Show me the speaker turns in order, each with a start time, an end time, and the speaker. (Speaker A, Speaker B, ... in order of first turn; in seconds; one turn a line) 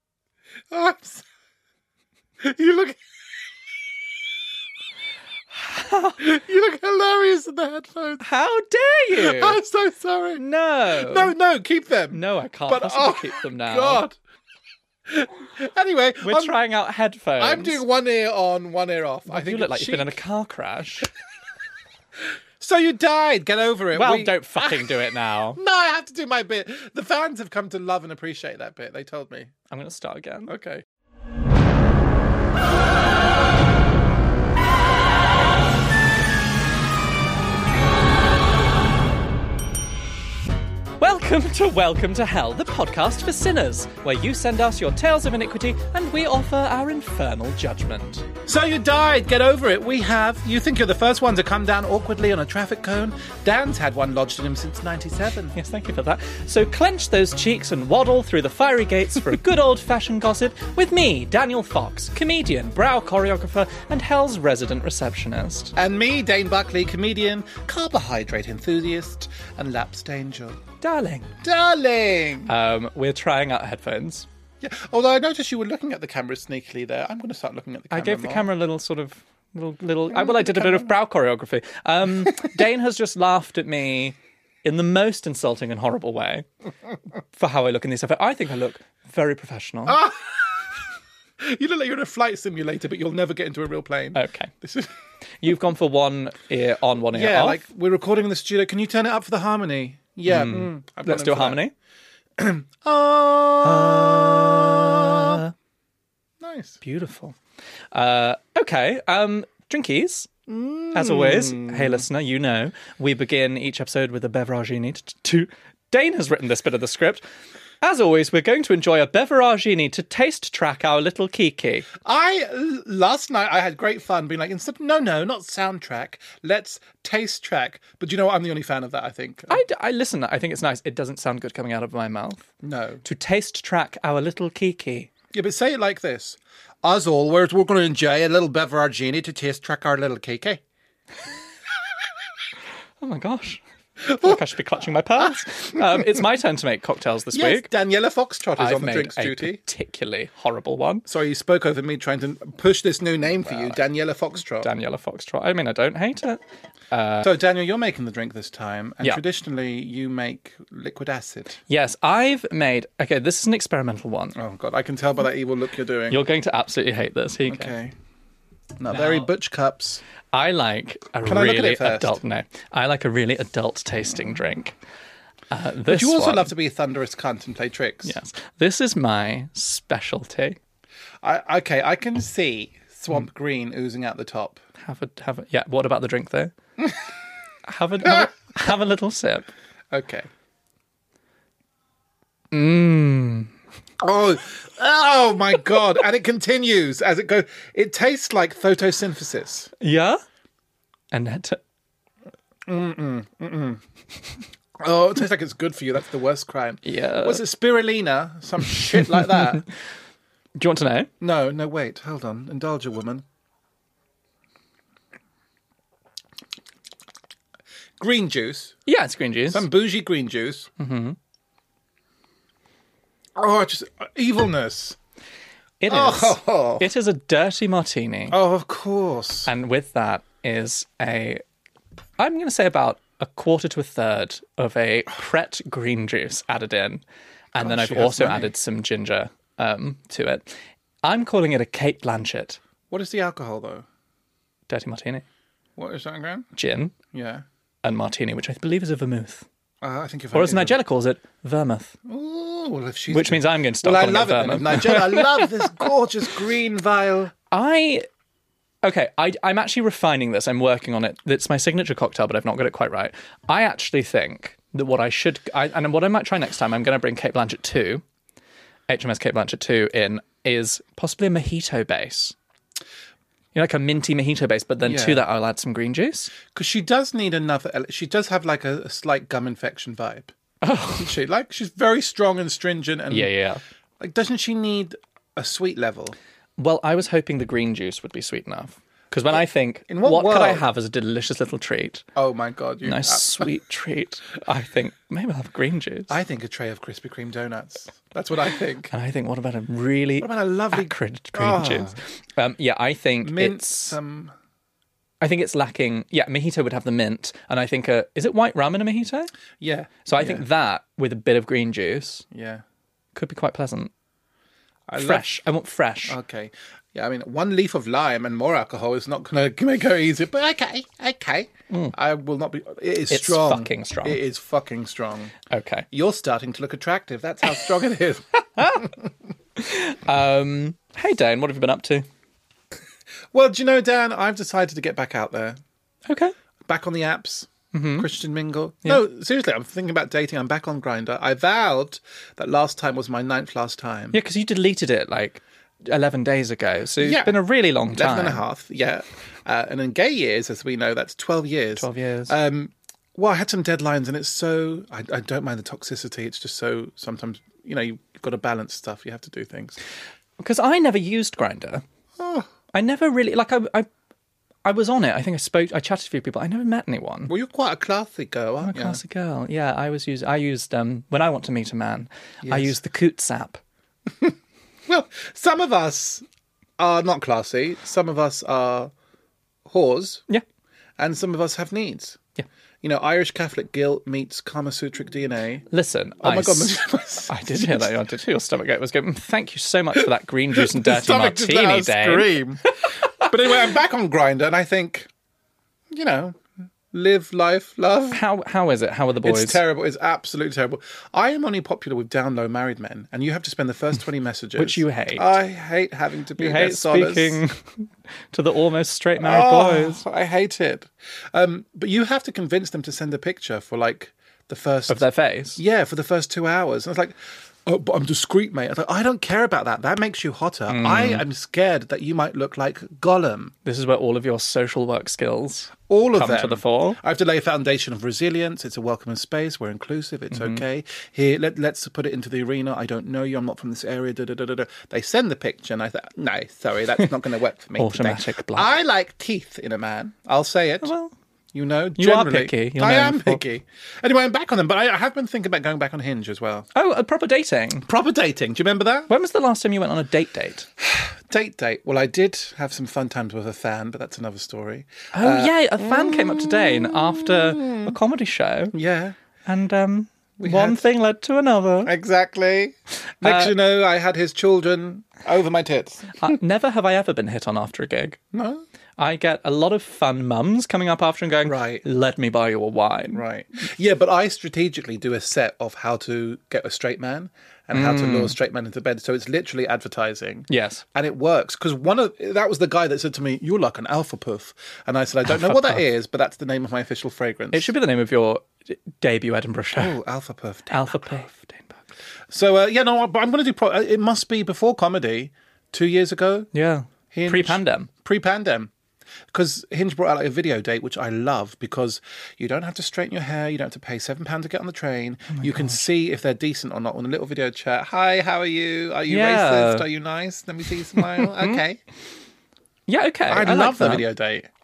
Speaker A: 0.7-1.2
Speaker A: 2.4-3.0
Speaker B: 5.5-6.2
Speaker A: 6.2-8.2
Speaker B: 8.2-9.6
Speaker A: 9.1-10.4
Speaker B: 10.4-11.3
Speaker A: 10.9-14.2
Speaker B: 12.1-14.0
Speaker A: 15.1-16.6
Speaker B: 16.2-17.8
Speaker A: 17.4-20.2
Speaker B: 19.3-21.1
Speaker A: 22.6-25.0
Speaker B: 23.9-25.6
Speaker A: 25.6-29.5
Speaker B: 29.7-30.5
Speaker A: 30.5-30.8
Speaker B: 41.0-48.3
Speaker A: 48.4-55.5
Speaker B: 55.5-65.7
Speaker A: 65.8-70.6
Speaker B: 70.8-71.3
Speaker A: 71.4-72.5
Speaker B: 72.5-74.3
Speaker A: 74.6-78.5
Speaker B: 77.9-86.5
Speaker A: 80.2-80.6
Speaker B: 87.3-90.0
Speaker A: 89.9-90.8
Speaker A: 91.4-94.9
Speaker B: 94.1-94.5
Speaker B: 95.4-97.6
Speaker A: 97.1-101.6
Speaker B: 100.2-101.7
Speaker A: 102.4-105.4
Speaker B: 103.6-105.5
Speaker A: 106.4-106.8
Speaker B: 106.8-107.4
Speaker B: 107.9-110.3
Speaker A: 110.5-112.0
Speaker B: 110.9-117.2
Speaker B: 117.8-121.9
Speaker A: 122.0-129.6
Speaker B: 129.5-132.5
Speaker A: 132.6-133.0
Speaker B: 133.0-135.1
Speaker A: 135.3-140.6
Speaker B: 143.0-147.7
Speaker A: 147.3-149.6
Speaker B: 148.6-151.0
Speaker A: 151.1-154.7
Speaker B: 153.5-153.8
Speaker B: 154.6-156.4
Speaker B: 156.9-157.3
Speaker A: 157.2-161.6
Speaker B: 161.7-164.4
Speaker A: 164.3-166.2
Speaker B: 166.1-167.7
Speaker A: 167.5-167.9
Speaker A: 168.8-170.0
Speaker B: 168.9-169.3
Speaker B: 170.3-174.8
Speaker A: 171.2-172.2
Speaker B: 175.5-176.5
Speaker A: 175.9-178.2
Speaker B: 178.0-180.6
Speaker A: 181.2-184.6
Speaker B: 184.8-186.5
Speaker B: 187.7-189.5
Speaker A: 189.9-190.3
Speaker B: 192.5-193.5
Speaker A: 194.0-199.7
Speaker B: 199.8-200.2
Speaker B: 201.1-201.6
Speaker A: 202.7-203.8
Speaker A: 204.8-209.7
Speaker B: 206.8-207.4
Speaker B: 209.0-209.6
Speaker B: 210.6-211.1
Speaker A: 211.2-213.2
Speaker A: 218.0-218.7
Speaker B: 218.8-219.7
Speaker A: 219.5-220.7
Speaker B: 220.8-221.2
Speaker A: 223.3-225.0
Speaker B: 225.8-228.4
Speaker A: 225.9-226.9
Speaker A: 228.3-229.5
Speaker B: 229.4-231.4
Speaker B: 232.2-237.0
Speaker A: 237.5-238.5
Speaker B: 237.5-242.6
Speaker A: 242.9-243.8
Speaker B: 244.7-245.2
Speaker A: 245.8-246.5
Speaker B: 246.5-246.9
Speaker A: 247.1-247.4
Speaker B: 247.8-249.4
Speaker A: 249.8-250.8
Speaker B: 250.3-251.9
Speaker A: 252.1-257.3
Speaker B: 253.1-255.7
Speaker B: 257.5-258.1
Speaker B: 258.8-268.0
Speaker B: 268.9-272.3
Speaker B: 273.5-276.3
Speaker A: 274.8-275.2
Speaker A: 276.5-280.3
Speaker B: 280.6-281.1
Speaker A: 280.9-283.3
Speaker B: 283.1-283.6
Speaker A: 284.0-286.1
Speaker B: 286.6-292.0
Speaker A: 289.9-290.6
Speaker A: 292.1-293.5
Speaker B: 292.8-296.1
Speaker A: 296.1-298.9
Speaker B: 298.9-304.0
Speaker A: 300.2-302.0
Speaker A: 303.2-304.3
Speaker B: 305.2-309.3
Speaker A: 309.6-310.4
Speaker B: 310.0-312.2
Speaker A: 312.3-312.6
Speaker B: 313.1-313.9
Speaker A: 314.9-315.2
Speaker B: 314.9-316.2
Speaker A: 316.1-325.3
Speaker B: 323.1-324.2
Speaker B: 325.5-325.9
Speaker A: 325.9-329.1
Speaker B: 328.6-328.9
Speaker B: 329.6-332.1
Speaker A: 333.3-335.6
Speaker B: 336.1-336.3
Speaker A: 336.6-344.2
Speaker B: 337.7-338.1
Speaker B: 344.1-348.4
Speaker A: 347.0-347.4
Speaker A: 347.9-359.8
Speaker B: 351.8-352.3
Speaker B: 360.4-361.8
Speaker A: 362.2-362.5
Speaker B: 362.7-363.9
Speaker B: 364.6-367.3
Speaker A: 367.3-369.0
Speaker B: 368.6-373.6
Speaker A: 372.4-372.7
Speaker A: 374.1-374.4
Speaker A: 374.9-376.2
Speaker A: 376.8-378.9
Speaker A: 379.6-380.2
Speaker A: 381.0-382.2
Speaker A: 382.8-385.7
Speaker B: 385.7-386.8
Speaker A: 386.2-387.9
Speaker B: 387.3-393.2
Speaker A: 390.5-395.1
Speaker A: 395.9-398.2
Speaker B: 398.1-399.6
Speaker A: 399.2-407.4
Speaker B: 404.6-405.3
Speaker B: 406.4-410.0
Speaker A: 409.2-415.0
Speaker B: 414.9-415.6
Speaker A: 415.6-423.5
Speaker B: 420.7-421.2
Speaker B: 423.6-427.0
Speaker A: 425.9-440.9
Speaker B: 430.3-430.6
Speaker B: 437.8-438.7
Speaker B: 440.8-441.1
Speaker A: 441.5-446.7
Speaker B: 442.0-443.4
Speaker B: 446.7-447.9
Speaker A: 447.9-449.1
Speaker B: 449.1-450.7
Speaker A: 450.8-457.9
Speaker B: 455.1-458.7
Speaker A: 458.7-459.1
Speaker B: 459.4-461.9
Speaker A: 460.4-460.9
Speaker A: 461.8-466.3
Speaker B: 463.2-463.5
Speaker B: 466.2-468.2
Speaker A: 468.3-468.6
Speaker B: 469.0-473.2
Speaker A: 471.4-471.8
Speaker A: 473.1-487.7
Speaker B: 477.7-478.4
Speaker B: 480.5-480.8
Speaker B: 485.3-485.8
Speaker B: 487.5-489.9
Speaker A: 489.8-491.2
Speaker B: 490.7-491.8
Speaker A: 492.3-496.5
Speaker B: 496.5-497.9
Speaker A: 497.1-498.7
Speaker A: 499.3-511.8
Speaker B: 505.3-505.8
Speaker B: 509.1-509.8
Speaker B: 512.9-514.0
Speaker A: 513.3-514.5